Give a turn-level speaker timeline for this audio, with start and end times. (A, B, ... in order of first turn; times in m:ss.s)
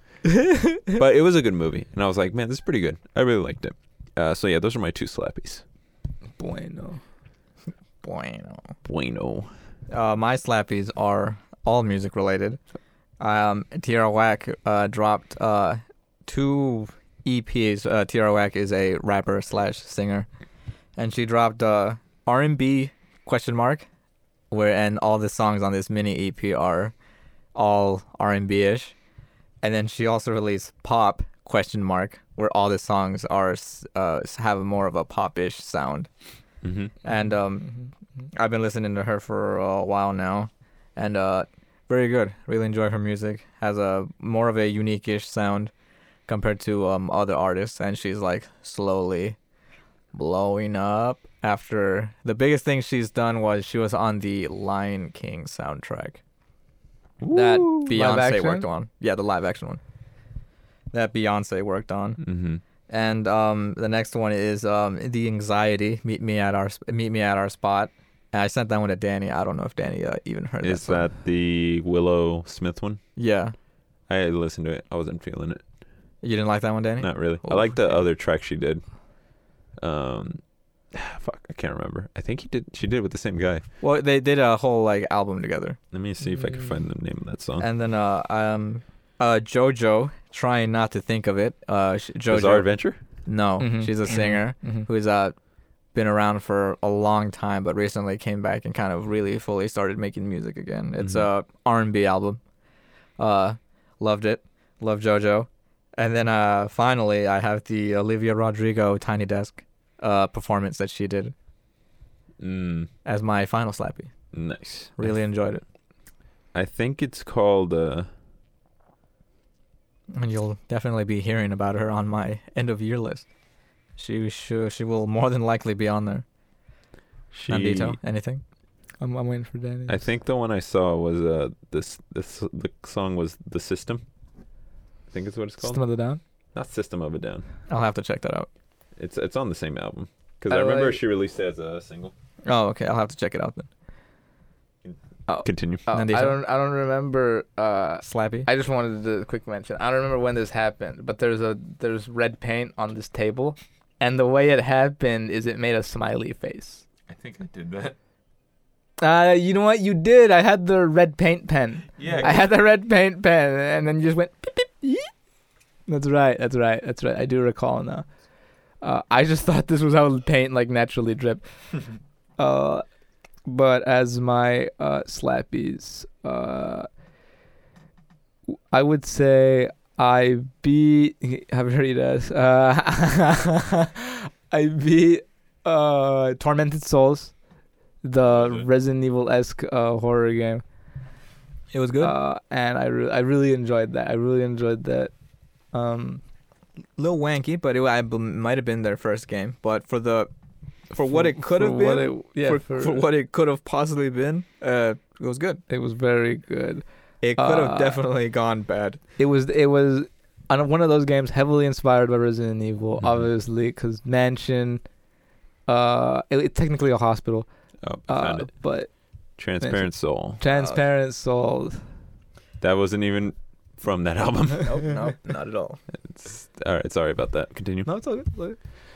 0:00.3-0:00.8 A
0:00.9-0:05.6 B
0:06.4-0:07.0 A
0:08.0-0:08.7 C
0:08.9-0:09.5 B
0:09.9-0:12.6 C
0:13.2-0:20.3 C
0:21.0-0:23.9 C
0:24.5-0:26.9 C
0:27.6-0:28.9 C
0:29.6-0:36.1 C
0:36.6-0:36.9 B
0:37.0-0:37.8 C
0:38.3-0:45.7 C
0:46.3-0:49.4 C
0:50.1-0:56.2 C
0:57.2-0:57.9 B
0:57.3-0:59.8 C
0:57.9-0:58.7 A
1:00.9-1:02.2 C
1:02.2-1:02.6 B
1:02.9-1:11.1 C
1:10.6-1:13.0 B
1:13.2-1:13.6 C
1:14.1-1:15.6 B
1:16.2-1:18.0 C
1:17.0-1:18.8 B
1:19.8-1:20.4 B
1:20.9-1:23.6 B
1:23.8-1:25.8 C
1:25.9-1:27.7 B
1:27.6-1:32.7 C
1:32.3-1:33.0 B
1:33.2-1:35.4 C
1:33.6-1:34.9 A
1:35.9-1:42.4 C
1:41.0-1:41.3 B
1:43.2-1:51.3 C
1:52.4-1:52.9 B
1:53.0-1:54.1 C
1:54.3-1:55.1 B
1:55.0-1:55.6 C
1:56.5-1:58.1 B
2:00.1-2:03.3 C
2:04.0-2:06.2 C
2:07.3-2:08.0 B
2:07.5-2:08.4 C
2:09.0-2:10.0 A
2:09.9-2:14.0 B
2:15.1-2:15.8 B
2:15.6-2:16.2 A
2:16.6-2:17.4 B
2:17.7-2:18.5 C
2:19.0-2:22.1 B
2:20.5-2:21.0 A
2:22.4-2:23.7 C
2:24.8-2:25.8 B
2:25.3-2:36.8 A
2:25.9-2:26.4 C
2:28.0-2:28.5 C
2:37.1-2:38.0 B
2:39.0-2:45.1 A
2:42.0-2:42.5 B
2:45.9-2:48.1 A
2:48.8-2:51.4 A
2:52.4-2:52.8 A
2:53.5-2:56.9 A
2:58.7-3:07.4 A
3:08.0-3:10.6 A
3:08.3-3:08.6 B
3:11.7-3:12.1 C
3:12.0-3:15.1 A
3:15.7-3:16.2 A
3:17.0-3:20.3 C
3:20.9-3:25.6 C
3:21.1-3:23.0 A
3:25.7-3:26.8 A
3:27.2-3:29.0 C
3:27.4-3:28.0 A
3:29.2-3:34.8 A
3:35.7-3:37.5 A
3:37.8-3:38.6 B
3:38.1-3:38.9 A
3:39.4-3:40.4 B
3:39.6-3:41.8 A
3:40.6-3:40.8 C
3:42.6-3:44.9 B
3:44.6-3:45.8 C
3:45.9-3:47.9 B
3:47.9-3:48.6 A